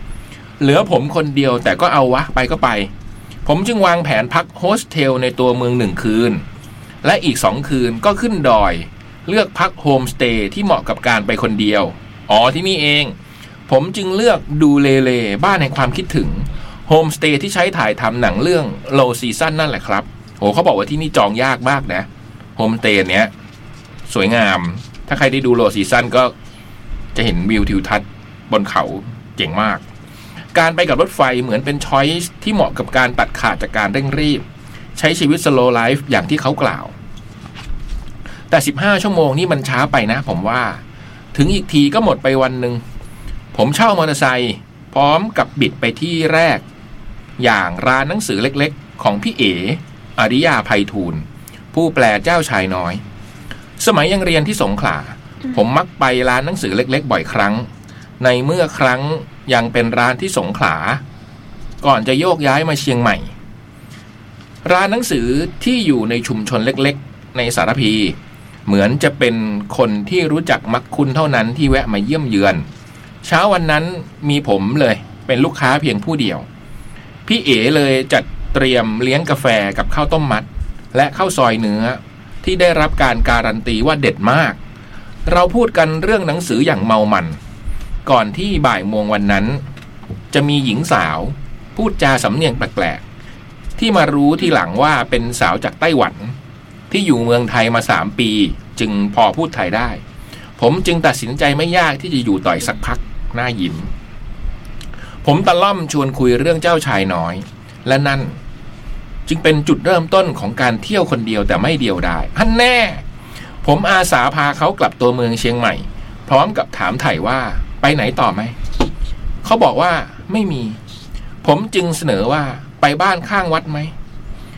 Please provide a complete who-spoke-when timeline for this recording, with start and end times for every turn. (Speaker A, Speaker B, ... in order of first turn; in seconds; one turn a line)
Speaker A: 0.6-2.9
Speaker A: 3.5-6.4
Speaker A: 7.0-13.1
Speaker A: 13.7-23.3
Speaker A: 24.1-26.3
Speaker A: 27.1-29.8
Speaker A: 30.5-34.4
Speaker A: 35.0-36.9
Speaker A: 38.5-40.8
Speaker A: 41.3-42.8
Speaker A: 43.5-46.6
Speaker A: 47.4-53.0
Speaker A: 53.8-57.7
Speaker A: 58.2-61.0
Speaker A: 61.8-63.3
Speaker A: 64.6-68.2
Speaker A: 68.7-72.7
Speaker A: 73.2-76.5
Speaker A: 77.2-84.6
Speaker A: 85.2-87.4
Speaker A: 88.0-89.6
Speaker A: 90.3-93.0
Speaker A: 93.8-96.3
Speaker A: 96.9-100.0
Speaker A: 100.6-103.9
Speaker A: 105.2-108.4
Speaker A: 109.3-113.0
Speaker A: 113.6-118.5
Speaker A: 119.4-120.8
Speaker A: 121.4-123.9